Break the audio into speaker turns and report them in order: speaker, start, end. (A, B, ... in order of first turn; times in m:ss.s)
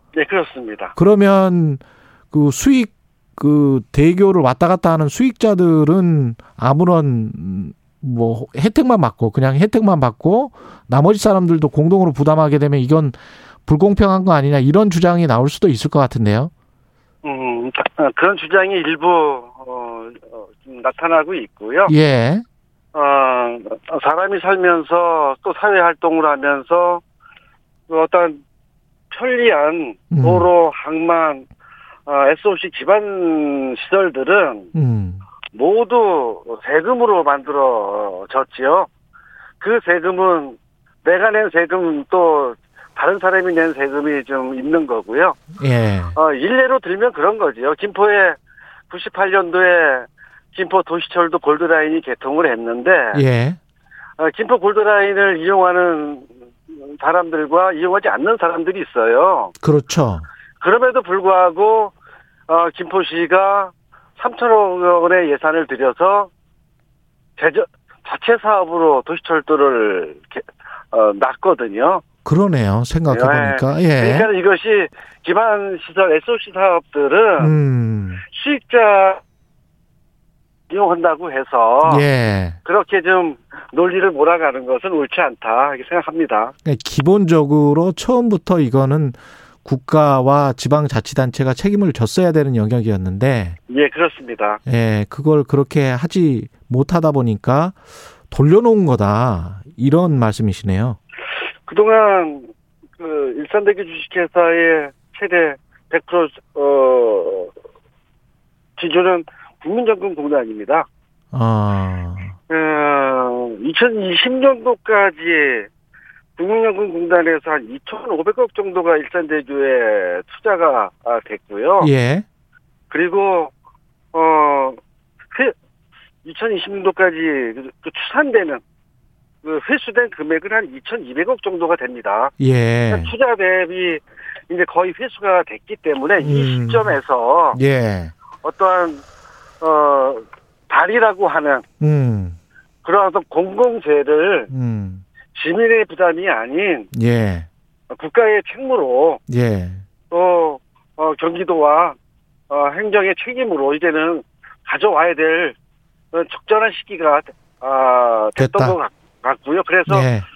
0:00.1-0:00.9 A
0:01.0-0:01.8 B
0:02.3-0:16.5 B
0:17.2-0:21.9 A
0:21.9-0:22.4 B
0:22.9-0:27.0 A
0:27.9-0:28.4 A
0:29.1-0:31.5 A
0:30.1-0:30.5 B
0:32.0-0:34.7 A
0:34.7-0:35.2 B
0:35.5-0:38.9 A
0:39.6-0:45.4 A
0:45.6-0:46.1 B
0:46.1-0:48.4 A
0:48.9-0:53.2 A
0:53.1-0:53.6 B
0:54.2-0:59.5 A
0:59.6-1:00.2 B
1:00.6-1:01.9 A
1:02.5-1:06.3 A
1:07.4-1:12.0 A
1:12.2-1:14.3 B
1:13.1-1:17.5 A
1:17.4-1:18.2 B
1:18.2-1:19.2 A
1:20.7-1:22.0 A
1:21.8-1:22.6 B
1:22.6-1:26.5 A
1:26.6-1:33.6 B
1:33.7-1:34.6 A
1:34.7-1:37.8 B
1:38.3-1:41.0 B
1:41.6-1:47.5 A
1:48.8-1:50.9 A
1:51.3-1:52.3 B
1:52.5-1:55.7 A
1:56.4-2:01.9 A
2:01.8-2:02.2 B
2:02.9-2:03.5 A
2:04.1-2:04.8 A
2:06.2-2:08.6 A
2:09.4-2:12.3 A
2:12.4-2:13.1 B
2:12.9-2:17.6 A
2:16.2-2:17.0 B
2:17.5-2:18.1 B
2:18.4-2:19.0 A
2:19.6-2:21.6 A
2:21.8-2:22.4 B
2:22.8-2:24.5 A
2:24.5-2:25.0 B
2:25.3-2:26.9 A
2:26.9-2:27.5 B
2:27.9-2:29.2 A
2:29.3-2:29.8 B
2:30.1-2:32.0 A
2:32.5-2:35.6 A
2:36.1-2:40.1 A
2:38.4-2:38.8 B
2:39.9-2:40.2 B